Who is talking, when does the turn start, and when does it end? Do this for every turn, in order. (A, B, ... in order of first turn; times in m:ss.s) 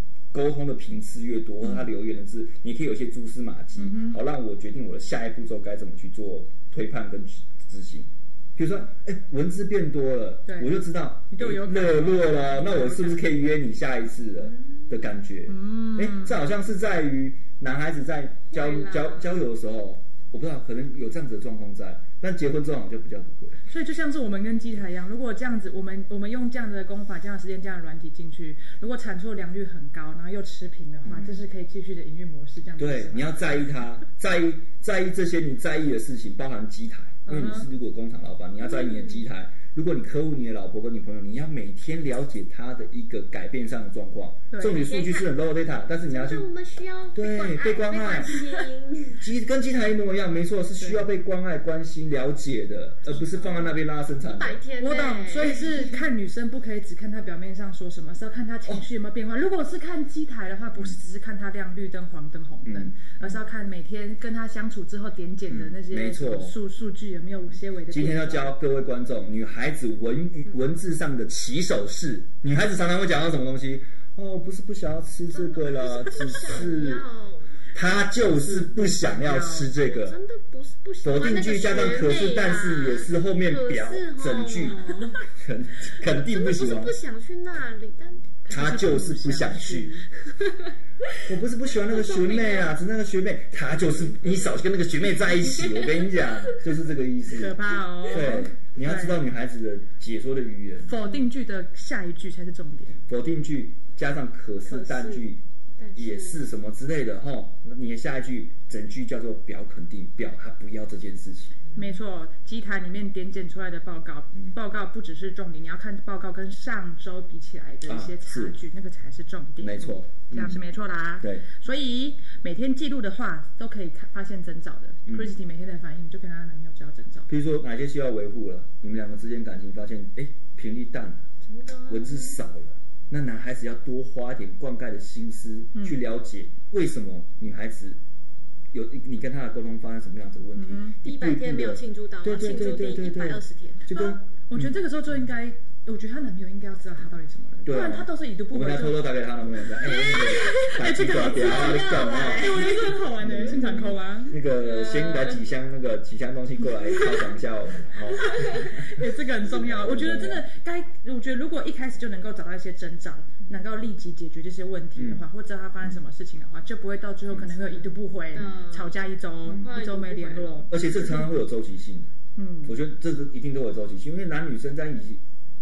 0:00.3-0:23.6 A
0:03.8-0:04.2 B
0:10.4-0:13.3 B
0:14.4-0:14.9 C
0:15.5-0:16.4 B
0:18.5-0:19.4 C
0:23.7-0:33.4 B
0:31.0-0:31.4 A
0:32.8-0:46.5 A
0:37.2-0:37.7 B
0:38.6-0:39.3 C
0:44.5-0:44.8 B
0:44.8-0:45.4 C
0:46.0-0:49.3 C
0:47.1-0:48.4 A
0:49.2-0:54.6 A
0:50.8-0:51.1 B
0:53.1-0:53.5 B
0:54.2-0:56.0 C
0:54.8-1:08.6 B
1:02.7-1:03.3 A
1:05.5-1:06.6 A
1:07.9-1:17.0 A
1:15.3-1:17.5 C
1:17.7-1:20.2 A
1:18.2-1:19.8 B
1:19.8-1:25.2 C
1:21.0-1:27.0 A
1:26.2-1:28.4 C
1:28.4-1:30.1 B
1:28.5-1:29.9 A
1:30.4-1:30.7 C
1:31.2-1:37.6 A
1:31.8-1:32.7 C
1:35.5-1:36.6 C
1:37.3-1:39.2 B
1:38.1-1:41.0 A
1:40.8-1:43.0 B
1:43.1-1:45.4 A
1:44.6-1:45.2 C
1:45.8-1:46.4 C
1:46.0-1:51.6 A
1:51.7-2:07.3 B
1:57.8-1:58.5 A
1:59.6-2:00.6 A
2:05.1-2:05.4 A
2:07.3-2:11.2 A
2:11.4-2:12.4 C
2:11.9-2:18.0 A
2:18.7-2:24.7 A
2:20.5-2:21.0 B
2:21.0-2:23.9 C
2:23.9-2:29.1 B
2:27.6-2:40.4 A
2:29.8-2:33.5 C
2:29.9-2:34.4 B
2:34.5-2:35.4 C
2:36.9-2:37.2 C
2:38.2-2:51.1 B
2:38.2-2:38.6 C
2:45.0-2:45.2 A
2:47.3-2:48.6 A
2:48.3-2:50.7 C
2:49.4-2:49.7 A
2:50.7-2:52.1 A
2:52.3-2:52.8 B
2:52.6-2:55.2 A